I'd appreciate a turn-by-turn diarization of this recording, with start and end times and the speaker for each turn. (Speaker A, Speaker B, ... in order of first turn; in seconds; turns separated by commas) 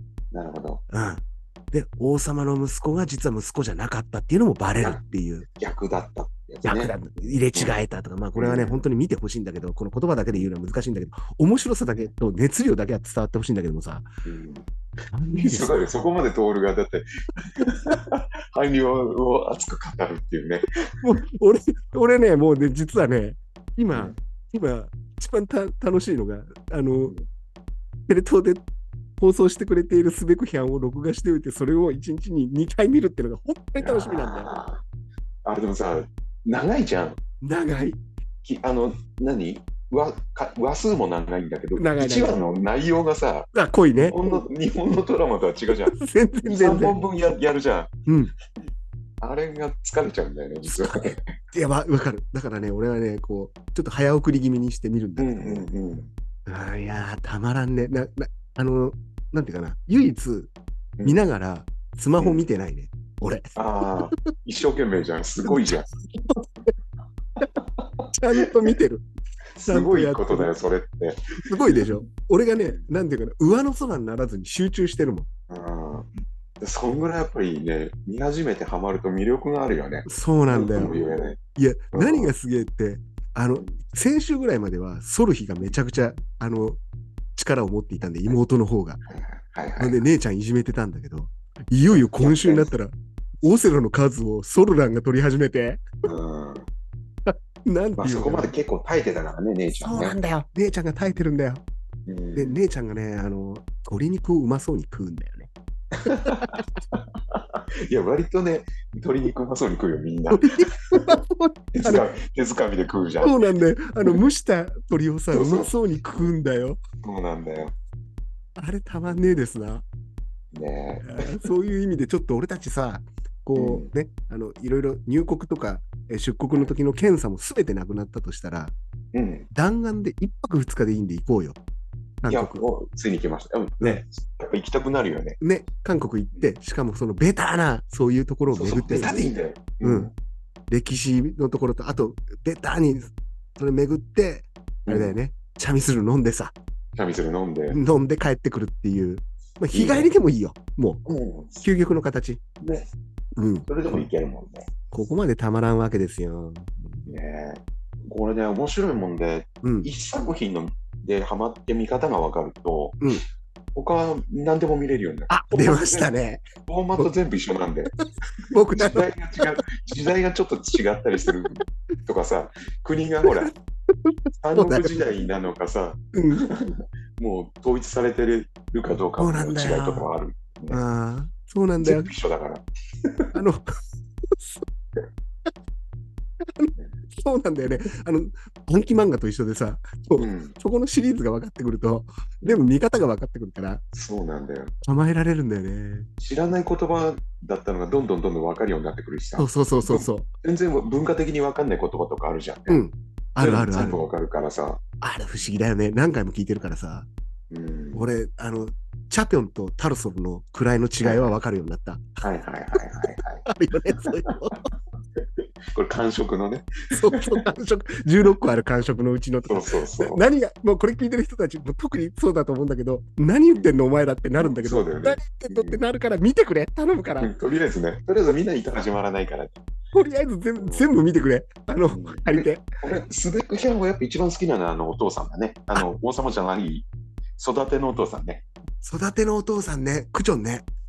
Speaker A: 0.3-0.8, Speaker B: 0.9-5.5, Speaker A: 4.8-7.8, Speaker B: 6.6-14.1, Speaker A: 8.4-8.8, Speaker A: 14.2-14.7, Speaker B: 15.1-16.0, Speaker A: 15.3-17.1, Speaker A: 17.6-20.7, Speaker B: 21.0-27.1, Speaker A: 23.9-24.1, Speaker B: 28.1-28.6, Speaker B: 29.2-34.5, Speaker A: 33.8-34.8, Speaker A: 35.5-37.2, Speaker B: 37.4-38.0, Speaker A: 38.4-43.5, Speaker B: 41.8-42.4, Speaker B: 43.5-44.4, Speaker A: 44.1-47.9, Speaker B: 45.9-47.0, Speaker B: 48.1-48.3, Speaker A: 49.2-51.1, Speaker B: 50.6-55.7, Speaker A: 55.2-56.1, Speaker B: 56.5-60.5, Speaker A: 61.0-61.3, Speaker B: 61.0-63.5, Speaker A: 62.2-62.5, Speaker A: 63.6-65.9, Speaker B: 65.5-65.8, Speaker A: 67.6-67.9, Speaker B: 68.1-69.0, Speaker A: 69.6-71.8, Speaker B: 69.7-70.5, Speaker B: 71.5-75.3, Speaker A: 72.6-72.8, Speaker A: 75.5-76.1, Speaker A: 76.6-81.4, Speaker B: 80.1-81.0, Speaker B: 81.6-86.8, Speaker A: 81.9-82.3, Speaker B: 87.4-89.0, Speaker A: 89.1-90.0, Speaker B: 89.8-92.9, Speaker A: 91.9-92.7, Speaker B: 93.4-95.8, Speaker A: 96.0-96.7, Speaker B: 97.3-98.5, Speaker A: 98.0-100.2, Speaker B: 99.8-101.6, Speaker A: 102.1-102.6, Speaker B: 102.3-105.5, Speaker B: 106.0-106.6, Speaker A: 106.0-111.1, Speaker B: 110.3-112.1, Speaker A: 111.7-113.4, Speaker B: 113.2-116.8, Speaker A: 115.3-115.7, Speaker A: 117.0-117.8, Speaker B: 118.6-119.8, Speaker A: 120.5-121.5, Speaker B: 121.0-128.8, Speaker A: 123.5-123.9, Speaker A: 129.1-129.5, Speaker B: 129.5-131.6, Speaker B: 132.2-132.7, Speaker A: 132.3-135.4, Speaker B: 135.4-140.1, Speaker A: 138.5-140.1, Speaker B: 140.7-146.6, Speaker A: 144.9-145.2, Speaker A: 147.0-147.8, Speaker B: 147.7-151.0, Speaker A: 149.7-150.1, Speaker A: 151.1-151.7, Speaker B: 151.6-152.4, Speaker A: 152.6-152.9, Speaker B: 153.4-154.1, Speaker A: 153.7-154.7, Speaker B: 154.9-157.1, Speaker A: 157.1-163.0, Speaker B: 159.6-159.9, Speaker A: 163.8-166.1, Speaker B: 165.3-166.4, Speaker A: 166.7-167.9, Speaker B: 167.9-169.5, Speaker A: 168.7-173.5, Speaker B: 174.1-175.1, Speaker A: 174.4-180.8, Speaker B: 176.1-176.4, Speaker B: 179.2-180.1, Speaker B: 180.7-182.1, Speaker A: 181.8-183.3, Speaker B: 183.3-183.6, Speaker B: 184.3-184.6, Speaker B: 186.6-193.8, Speaker A: 190.2-190.6, Speaker A: 193.9-194.7, Speaker B: 194.8-196.1, Speaker A: 196.2-202.8, Speaker B: 199.4-200.3, Speaker B: 202.7-204.0, Speaker A: 203.4-204.8, Speaker B: 205.0-207.1, Speaker A: 207.5-208.1, Speaker B: 207.9-212.2, Speaker A: 211.0-211.3, Speaker A: 212.2-213.4, Speaker B: 212.8-214.6, Speaker A: 214.1-214.3, Speaker A: 215.7-217.4, Speaker B: 216.9-227.3, Speaker A: 219.5-220.2, Speaker A: 224.4-225.8, Speaker A: 227.2-229.6, Speaker B: 229.9-232.7, Speaker A: 230.6-230.9, Speaker A: 231.9-236.9, Speaker A: 237.4-238.4, Speaker B: 238.8-240.7